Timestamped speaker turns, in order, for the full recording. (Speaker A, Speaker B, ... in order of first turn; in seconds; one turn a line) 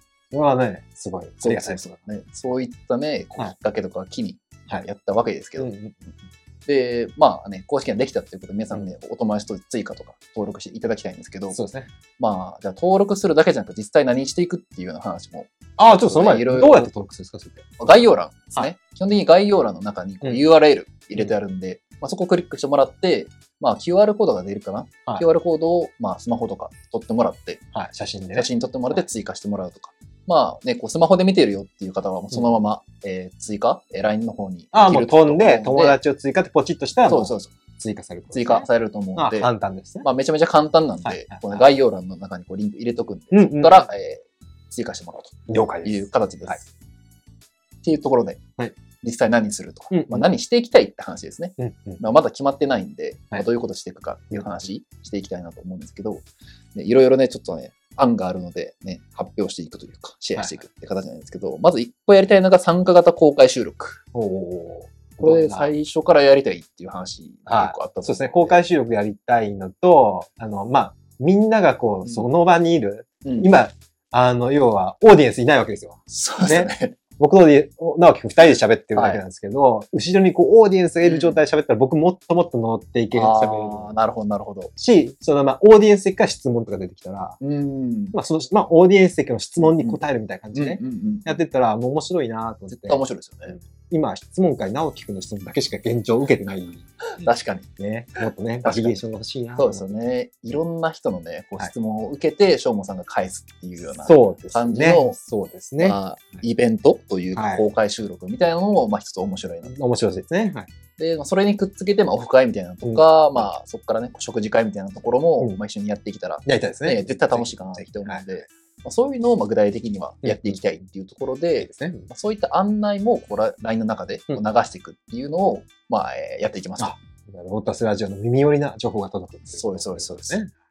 Speaker A: 0.3-1.9
Speaker B: 1.4-5.7
Speaker A: 5.6-6.1
Speaker B: 6.7-11.6
Speaker A: 11.5-11.9
Speaker B: 12.2-16.9
Speaker A: 15.8-17.7
Speaker B: 17.8-27.6
Speaker A: 27.7-29.1
Speaker B: 28.3-36.0
Speaker A: 34.7-40.1
Speaker B: 37.0-37.6
Speaker B: 38.3-39.5
Speaker B: 40.0-46.6
Speaker A: 41.0-41.7
Speaker A: 43.3-43.9
Speaker A: 45.5-46.6
Speaker B: 47.8-48.4
Speaker B: 49.0-64.0
Speaker A: 49.9-50.3
Speaker A: 51.6-52.0
Speaker A: 60.4-60.6
Speaker A: 64.1-65.7
Speaker B: 65.2-68.6
Speaker A: 67.5-84.0
Speaker B: 73.2-73.5
Speaker B: 76.1-77.0
Speaker B: 79.0-79.2
Speaker B: 81.0-81.4
Speaker B: 83.1-84.7
Speaker A: 84.8-87.4
Speaker B: 87.4-88.2
Speaker A: 88.1-97.3
Speaker B: 89.7-90.0
Speaker B: 90.5-91.4
Speaker B: 92.7-93.6
Speaker B: 97.2-97.7
Speaker A: 97.8-100.0
Speaker B: 98.6-99.0
Speaker B: 99.6-105.2
Speaker A: 104.0-106.0
Speaker B: 105.8-109.8
Speaker A: 107.3-107.7
Speaker A: 109.7-110.7
Speaker B: 111.0-126.9
Speaker A: 112.8-113.5
Speaker A: 116.5-118.4
Speaker A: 120.2-120.6
Speaker A: 121.6-122.1
Speaker A: 126.8-130.5
Speaker B: 129.5-130.4